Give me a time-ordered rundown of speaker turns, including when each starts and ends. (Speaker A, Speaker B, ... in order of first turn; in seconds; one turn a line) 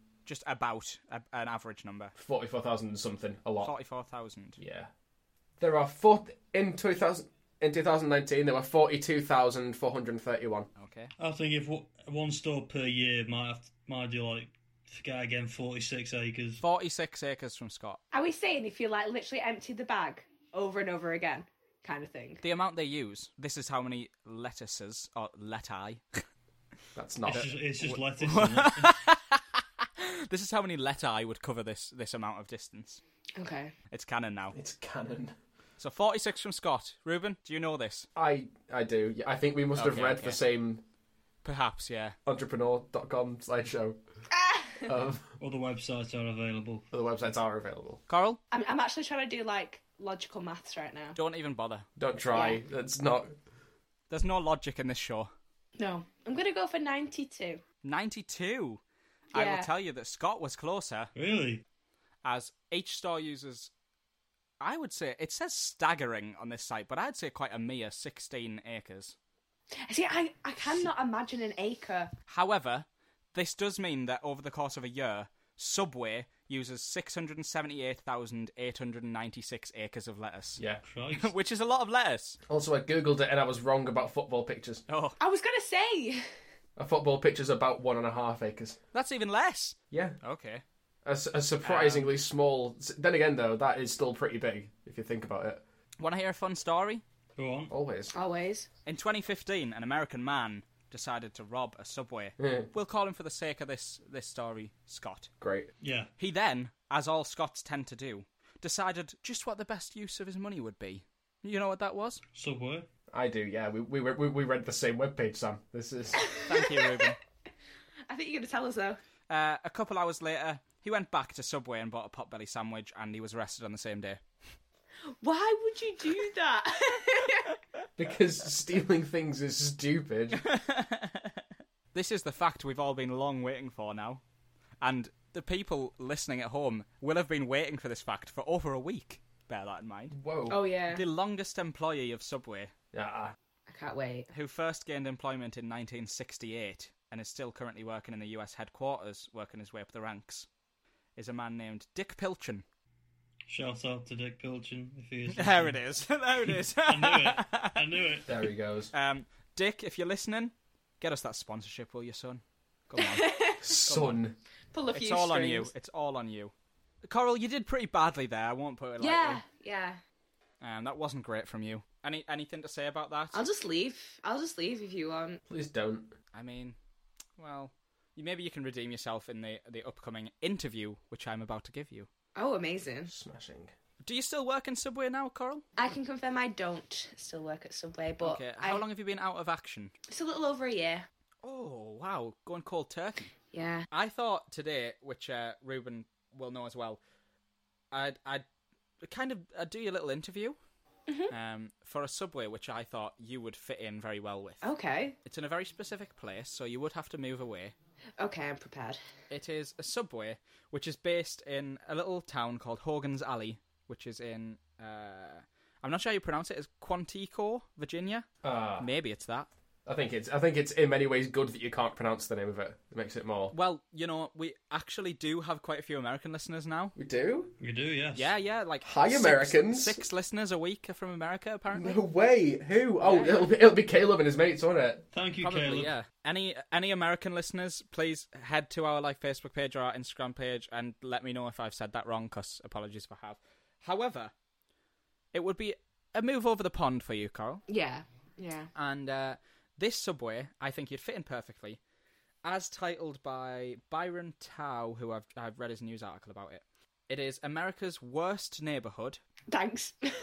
Speaker A: 0.2-2.1
Speaker B: 2.2-3.7
Speaker A: 3.6-4.6
Speaker B: 4.6-4.9
Speaker B: 5.6-10.7
Speaker A: 10.8-11.1
Speaker C: 11.2-16.6
Speaker A: 16.6-18.0
Speaker D: 18.1-22.4
Speaker A: 22.4-26.3
Speaker B: 26.9-27.5
Speaker C: 27.3-28.9
Speaker A: 27.3-33.0
Speaker D: 33.4-33.7
Speaker A: 33.9-34.6
Speaker B: 34.5-35.4
Speaker A: 35.8-38.1
Speaker B: 38.2-40.8
Speaker A: 39.8-40.4
Speaker A: 41.4-42.2
Speaker B: 42.3-44.0
Speaker D: 44.3-44.9
Speaker B: 44.9-45.3
Speaker C: 45.4-46.9
Speaker B: 46.9-48.0
Speaker A: 48.1-48.4
Speaker D: 48.5-51.2
Speaker A: 51.1-51.9
Speaker B: 52.0-53.3
Speaker D: 52.3-52.6
Speaker A: 54.1-55.3
Speaker D: 55.8-57.6
Speaker A: 57.8-58.8
Speaker A: 59.3-61.1
Speaker D: 59.3-59.7
Speaker C: 61.1-61.6
Speaker A: 62.2-63.7
Speaker A: 64.6-69.2
Speaker D: 69.9-72.1
Speaker A: 72.3-80.6
Speaker C: 80.8-81.3
Speaker A: 81.1-82.4
Speaker B: 82.5-84.8
Speaker A: 84.9-85.2
Speaker D: 85.2-86.3
Speaker B: 86.8-88.8
Speaker A: 88.9-90.6
Speaker B: 89.9-90.2
Speaker B: 91.0-95.6
Speaker A: 91.6-92.1
Speaker A: 96.0-97.0
Speaker C: 97.4-97.7
Speaker B: 97.7-98.1
Speaker D: 98.1-98.7
Speaker A: 98.9-105.3
Speaker B: 102.4-102.7
Speaker B: 105.4-105.7
Speaker C: 105.8-106.1
Speaker A: 106.2-112.2
Speaker C: 112.3-112.9
Speaker B: 113.1-116.2
Speaker D: 116.2-117.1
Speaker A: 116.5-117.2
Speaker D: 118.1-119.0
Speaker A: 119.3-124.2
Speaker D: 125.2-127.6
Speaker B: 128.0-130.4
Speaker A: 130.3-131.4
Speaker A: 131.9-134.2
Speaker A: 134.8-140.2
Speaker B: 140.1-140.6
Speaker D: 140.5-141.0
Speaker A: 140.9-142.7
Speaker B: 142.9-143.3
Speaker D: 143.7-144.3
Speaker A: 144.3-150.5
Speaker A: 151.2-152.7
Speaker C: 153.5-155.8
Speaker A: 155.3-157.8
Speaker C: 156.5-158.4
Speaker B: 158.3-158.9
Speaker A: 158.9-164.2
Speaker D: 163.0-163.8
Speaker B: 163.6-164.4
Speaker D: 164.7-165.7
Speaker A: 164.9-166.5
Speaker A: 167.0-169.4
Speaker D: 169.0-170.0
Speaker A: 170.6-173.4
Speaker D: 173.3-175.4
Speaker B: 175.5-176.1
Speaker A: 176.3-176.8
Speaker A: 177.4-182.1
Speaker D: 182.4-183.1
Speaker B: 183.1-183.7
Speaker A: 184.0-185.7
Speaker D: 185.8-188.8
Speaker A: 188.2-189.9
Speaker D: 190.1-191.1
Speaker A: 191.4-193.3
Speaker D: 193.5-193.9
Speaker A: 193.9-197.0
Speaker A: 197.9-198.4
Speaker A: 199.0-200.6
Speaker D: 201.1-201.3
Speaker A: 201.3-204.7
Speaker D: 204.6-205.2
Speaker A: 205.2-207.7
Speaker D: 208.2-209.0
Speaker A: 209.3-218.3
Speaker B: 218.4-218.9
Speaker A: 218.8-219.5
Speaker B: 219.9-223.5
Speaker A: 223.5-226.9
Speaker B: 227.0-227.5
Speaker C: 227.6-228.3
Speaker A: 228.2-232.0
Speaker B: 228.8-230.0
Speaker B: 231.7-235.0
Speaker A: 233.0-233.4
Speaker C: 235.1-235.9
Speaker A: 235.4-244.3
Speaker A: 245.3-247.6
Speaker D: 247.7-248.7
Speaker A: 248.8-251.8
Speaker A: 252.4-259.2
Speaker D: 259.5-260.1